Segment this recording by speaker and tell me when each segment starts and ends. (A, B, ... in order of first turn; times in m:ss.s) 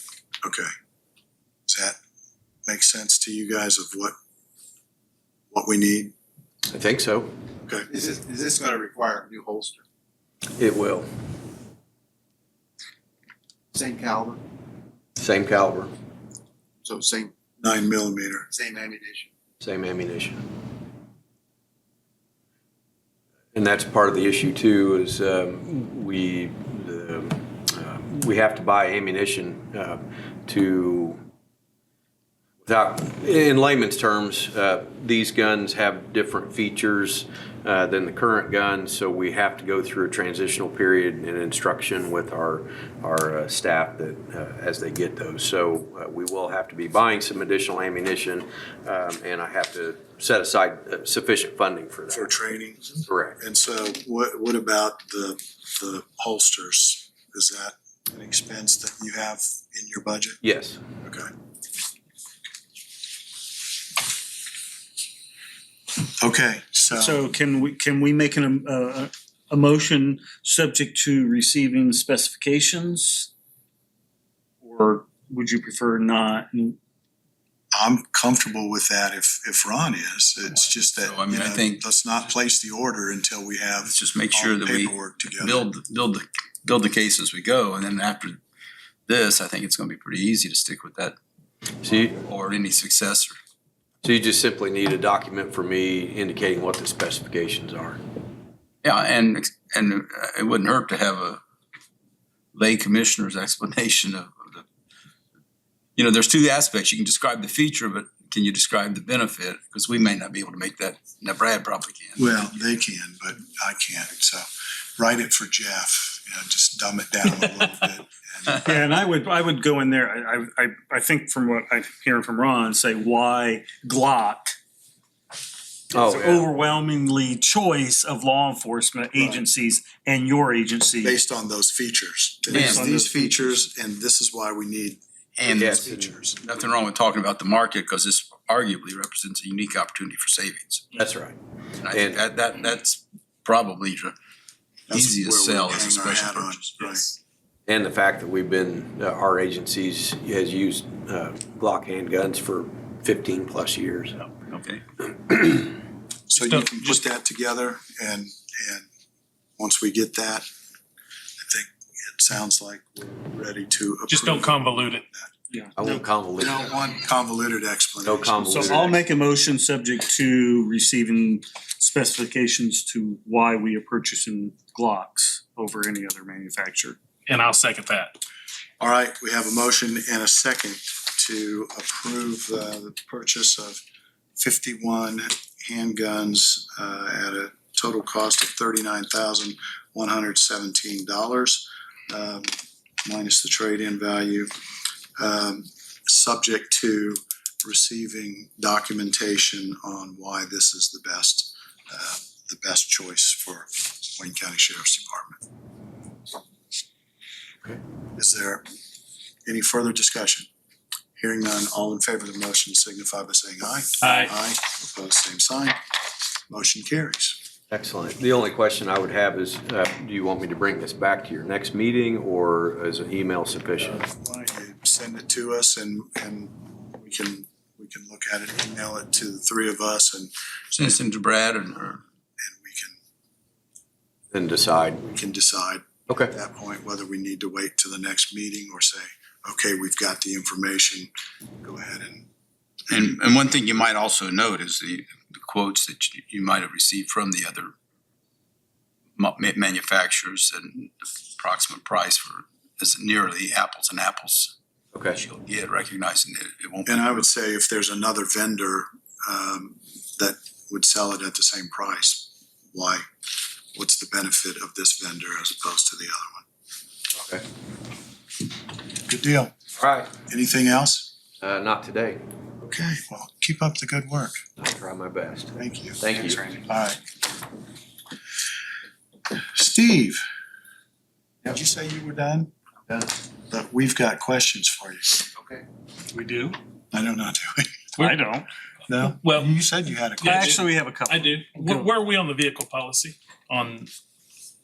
0:00.4-0:00.7 A
0:01.7-0:02.0 A
0:02.7-0:04.2 A
0:05.5-0:06.1 A
0:06.7-0:07.3 B
0:07.6-0:07.9 A
0:07.9-0:09.8 C
0:10.6-0:11.1 B
0:13.7-0:14.4 C
0:15.2-0:15.9 B
0:16.8-0:17.3 C
0:17.6-0:18.5 A
0:18.5-0:19.3 C
0:19.6-0:20.4 B
0:23.5-0:31.2 B
0:32.6-0:52.4 B
0:52.1-1:00.4 A
0:53.1-0:53.4 B
1:00.4-1:00.8 B
1:01.0-1:01.3 A
1:06.1-1:07.2 A
1:06.9-1:13.3 D
1:14.6-1:16.8 D
1:17.7-1:25.6 A
1:21.0-1:21.8 E
1:23.8-1:28.4 E
1:29.1-1:31.2 E
1:31.8-1:32.1 B
1:31.9-1:33.4 E
1:34.0-1:38.0 B
1:38.8-1:41.4 E
1:42.6-1:44.6 E
1:46.0-1:52.4 E
1:52.2-1:54.5 A
1:55.0-1:58.7 A
1:58.6-2:04.6 D
2:05.9-2:11.2 D
2:05.9-2:06.5 B
2:11.0-2:16.4 A
2:12.5-2:13.6 D
2:12.5-2:12.9 E
2:15.4-2:15.8 E
2:15.5-2:16.2 B
2:16.4-2:20.9 E
2:21.0-2:21.4 B
2:21.8-2:24.2 E
2:21.9-2:22.2 B
2:24.9-2:27.1 A
2:24.9-2:27.0 E
2:27.7-2:34.2 B
2:34.5-2:34.8 E
2:36.3-2:38.9 A
2:36.4-2:37.0 F
2:39.6-2:40.5 A
2:41.4-2:45.3 A
2:44.1-2:45.0 F
2:45.5-2:46.0 D
2:45.8-2:46.7 B
2:46.4-2:49.0 A
2:48.0-2:49.0 B
2:48.5-2:57.0 D
2:57.3-2:58.2 F
2:58.8-3:03.8 A
3:04.4-3:12.5 A
3:13.0-3:14.5 A
3:15.2-3:25.4 A
3:28.2-3:28.6 A
3:29.4-3:30.5 A
3:31.2-3:35.8 A
3:34.0-3:34.3 F
3:36.5-3:37.4 A
3:37.7-3:44.0 B
3:43.8-3:50.9 A
3:50.8-3:52.0 E
3:52.4-3:53.0 A
3:54.3-3:55.0 B
3:55.0-4:01.1 A
3:56.1-3:56.3 B
4:01.6-4:02.3 A
4:02.9-4:07.7 E
4:09.2-4:14.6 E
4:15.2-4:17.3 E
4:16.9-4:23.0 A
4:23.7-4:26.4 A
4:27.1-4:27.4 B
4:29.1-4:29.5 A
4:29.8-4:30.1 B
4:30.3-4:31.1 A
4:31.4-4:32.2 B
4:32.6-4:34.4 A
4:34.6-4:36.4 B
4:35.6-4:36.0 A
4:36.6-4:37.0 A
4:39.5-4:40.2 A
4:41.4-4:42.5 A
4:43.5-4:45.3 A
4:46.1-4:46.6 F
4:46.9-4:47.9 A
4:48.0-4:48.2 F
4:48.0-4:48.5 D
4:48.9-4:50.6 A
4:49.2-4:49.5 F
4:50.2-4:53.9 F
4:50.2-4:51.9 D